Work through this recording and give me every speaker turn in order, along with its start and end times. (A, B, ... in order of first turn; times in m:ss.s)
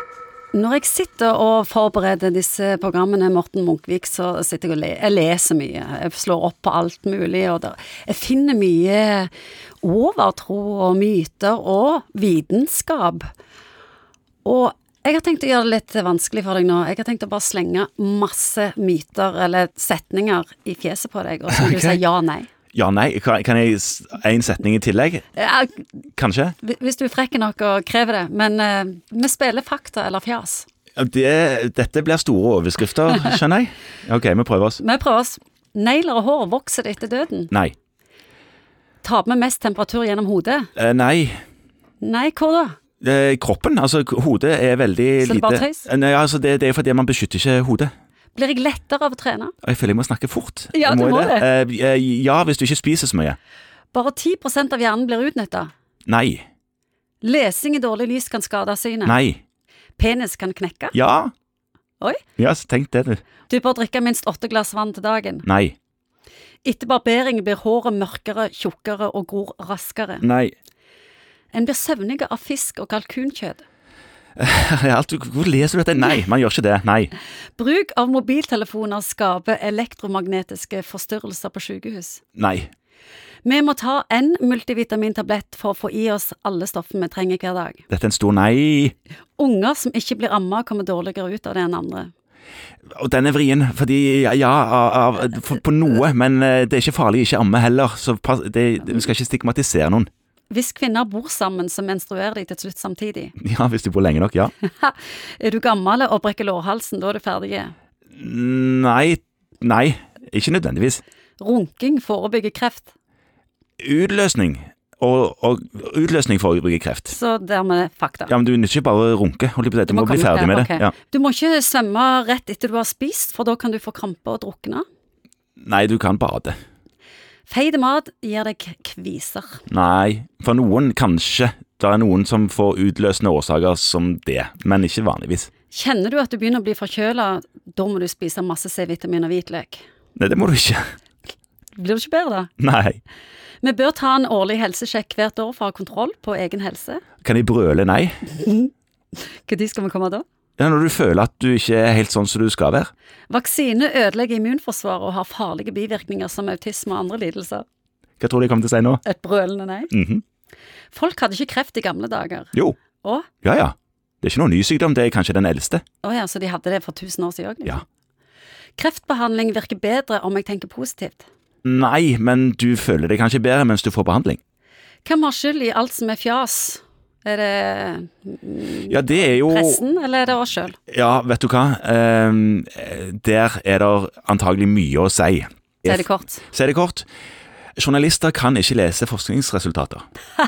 0:00.5-0:09.3 A
0:09.8-0:13.3 A
0:14.4-0:22.5 A
0:21.5-0:22.0 B
0:22.7-0:25.3 B
0:25.4-0:25.8 A
0:26.2-0:26.6 B
0:26.6-0:30.7 A
0:31.0-0:34.8 B
0:34.8-0:37.5 A
0:39.0-0:40.7 A
0:40.8-0:41.4 B
0:42.0-0:42.8 A
0:43.0-0:47.9 B
0:45.2-0:45.9 A
0:48.4-0:49.5 A
0:49.6-0:53.4 B
0:50.7-0:51.5 A
0:53.9-0:55.7 A
0:56.1-0:56.4 B
0:57.2-0:59.2 A
0:59.0-0:59.4 B
1:00.0-1:01.0 A
1:00.9-1:01.3 B
1:02.4-1:03.2 B
1:03.5-1:05.4 A
1:05.4-1:05.8 B
1:06.6-1:10.3 A
1:10.2-1:10.5 B
1:11.5-1:13.6 A
1:14.4-1:17.1 B
1:17.6-1:22.2 A
1:22.4-1:22.7 B
1:23.4-1:27.8 A
1:27.9-1:28.9 B
1:29.4-1:32.1 A
1:32.9-1:40.1 B
1:40.5-1:43.4 A
1:43.4-1:44.5 B
1:44.6-1:47.7 A
1:48.2-1:51.0 B
1:51.4-1:52.9 A
1:53.8-1:57.2 B
1:57.1-1:58.3 A
1:58.3-2:00.9 B
1:59.9-2:04.8 A
2:05.6-2:06.6 B
2:07.5-2:09.6 A
2:09.7-2:15.5 B
2:15.7-2:19.8 A
2:20.2-2:20.8 B
2:21.8-2:22.5 A
2:22.6-2:23.0 B
2:23.6-2:27.0 A
2:27.2-2:28.2 B
2:28.3-2:30.2 A
2:30.6-2:32.9 B
2:33.3-2:37.6 A
2:38.2-2:39.0 B
2:39.0-2:39.9 A
2:39.9-2:40.2 B
2:40.9-2:43.3 A
2:42.5-2:42.8 B
2:43.4-2:45.8 B
2:46.0-2:47.8 A
2:48.8-2:51.3 A
2:51.6-2:54.4 B
2:55.0-3:00.8 A
2:58.9-2:59.8 B
3:00.9-3:07.1 B
3:05.8-3:06.4 A
3:07.8-3:10.0 B